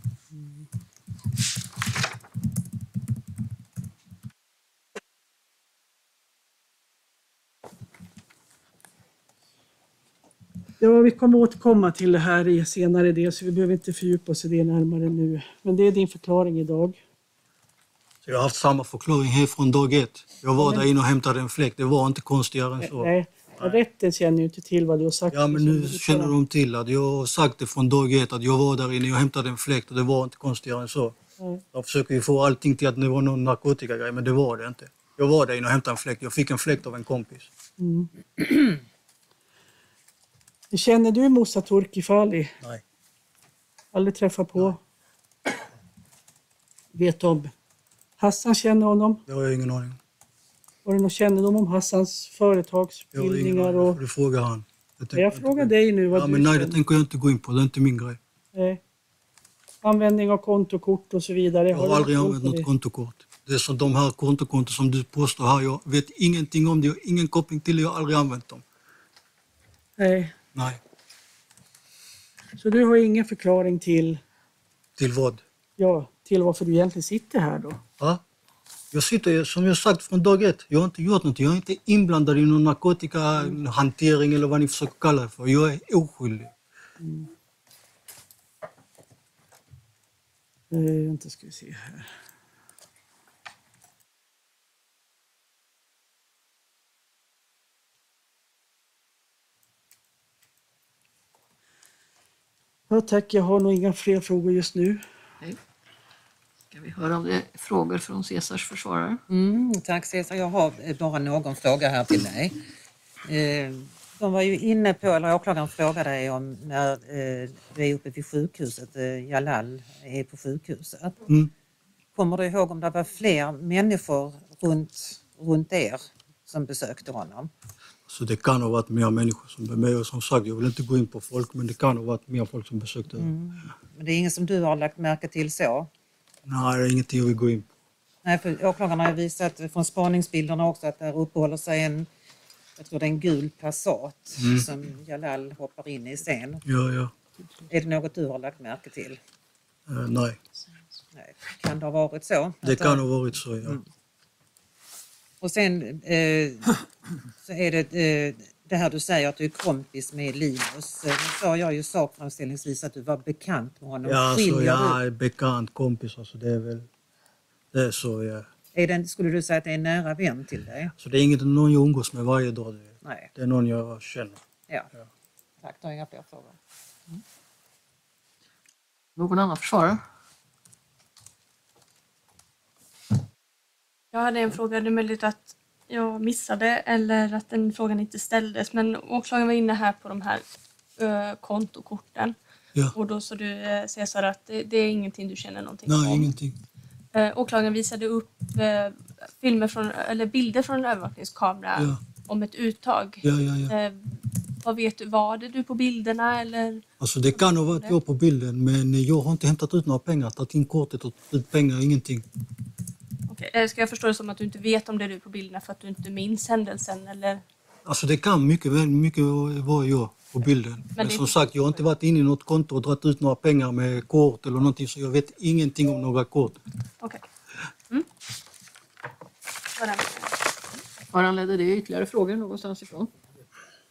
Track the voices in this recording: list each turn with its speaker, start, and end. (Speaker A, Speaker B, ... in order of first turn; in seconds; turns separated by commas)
Speaker A: 0.3-0.6, Speaker A: 10.8-17.0, Speaker B: 18.2-23.8, Speaker A: 20.6-20.9, Speaker A: 22.8-26.3, Speaker B: 25.3-31.2, Speaker B: 31.7-37.5, Speaker A: 37.8-38.1, Speaker A: 40.7-42.5, Speaker A: 43.9-44.8, Speaker A: 46.9-47.5, Speaker A: 48.2-49.2, Speaker B: 49.3-50.0, Speaker A: 50.8-54.0, Speaker B: 53.1-58.2, Speaker A: 55.1-56.8, Speaker A: 58.5-58.8, Speaker A: 59.8-62.7, Speaker B: 61.7-68.6, Speaker A: 70.0-70.3, Speaker A: 72.6-74.2, Speaker B: 75.0-75.4, Speaker A: 75.8-77.8, Speaker B: 78.9-86.5, Speaker A: 87.0-87.3, Speaker A: 90.7-92.1, Speaker A: 102.9-105.0, Speaker C: 106.7-109.2, Speaker D: 109.3-112.5, Speaker D: 113.2-121.2, Speaker D: 122.1-127.5, Speaker B: 128.1-133.3, Speaker D: 133.1-135.9, Speaker B: 136.4-137.7, Speaker D: 138.2-142.1, Speaker D: 142.8-146.6, Speaker B: 144.4-144.7, Speaker B: 146.6-147.1, Speaker D: 147.7-149.2, Speaker B: 149.9-150.4, Speaker D: 151.1-153.0, Speaker B: 152.6-153.8, Speaker D: 155.4-156.8, Speaker D: 157.4-165.0, Speaker B: 164.1-166.9, Speaker B: 167.7-168.5, Speaker D: 168.7-170.9, Speaker B: 171.0-174.4, Speaker D: 173.0-173.3, Speaker D: 175.6-176.6, Speaker C: 179.2-180.0, Speaker E: 184.1-190.4, Speaker E: 191.0-192.4, Speaker E: 192.9-196.3, Speaker B: 195.8-196.6, Speaker E: 197.1-206.8, Speaker B: 203.2-203.7, Speaker B: 207.0-212.2, Speaker E: 207.7-207.9, Speaker E: 213.3-217.4, Speaker B: 217.8-226.6, Speaker E: 220.9-221.3, Speaker E: 229.8-230.3, Speaker C: 231.1-233.1